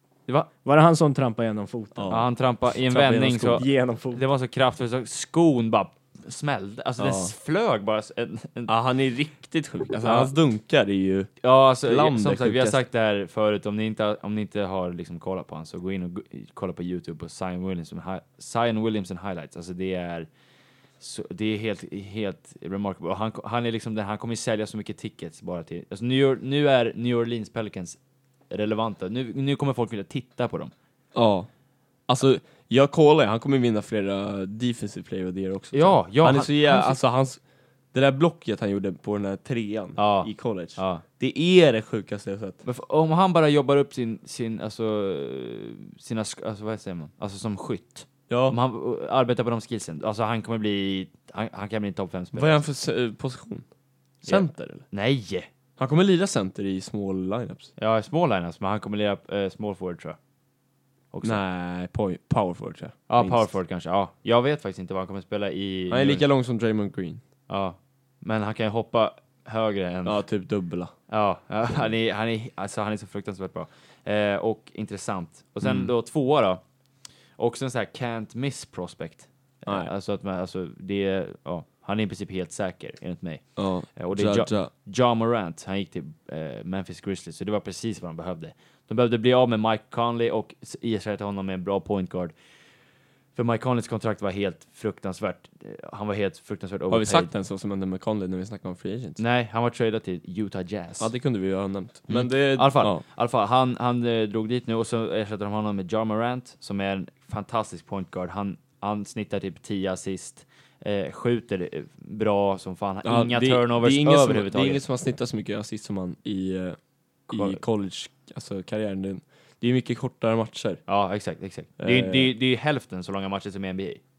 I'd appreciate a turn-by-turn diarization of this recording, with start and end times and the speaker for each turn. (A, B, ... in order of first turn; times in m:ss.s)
0:00.6-0:02.1 A
0:01.9-0:03.6 B
0:02.1-0:08.7 C
0:03.5-0:04.2 A
0:07.0-0:07.3 B
0:08.7-0:12.8 B
0:10.0-0:10.3 C
0:11.4-0:20.3 C
0:21.0-0:28.0 C
0:28.5-0:30.7 C
0:31.1-0:31.5 B
0:32.1-0:37.4 B
0:35.7-0:37.0 C
0:37.9-0:42.6 B
0:40.0-0:41.0 C
0:42.6-0:52.6 C
0:48.3-0:48.6 B
0:52.3-0:53.7 B
0:54.2-0:54.8 B
0:54.2-0:55.5 C
0:55.8-0:57.7 B
0:57.8-1:00.2 C
1:01.1-1:01.4 C
1:01.2-1:03.5 B
1:03.1-1:06.2 C
1:05.9-1:07.2 B
1:07.5-1:10.2 C
1:10.0-1:10.9 B
1:11.1-1:16.6 C
1:15.6-1:15.9 B
1:17.4-1:32.3 C
1:19.6-1:19.9 B
1:23.6-1:24.7 B
1:33.3-1:37.3 C
1:36.9-1:39.2 B
1:39.2-1:41.1 C
1:41.0-1:43.0 B
1:42.1-1:54.8 C
1:53.0-1:56.8 B
1:57.3-1:57.6 C
1:57.3-2:00.8 B
2:00.9-2:04.0 C
2:01.8-2:02.3 B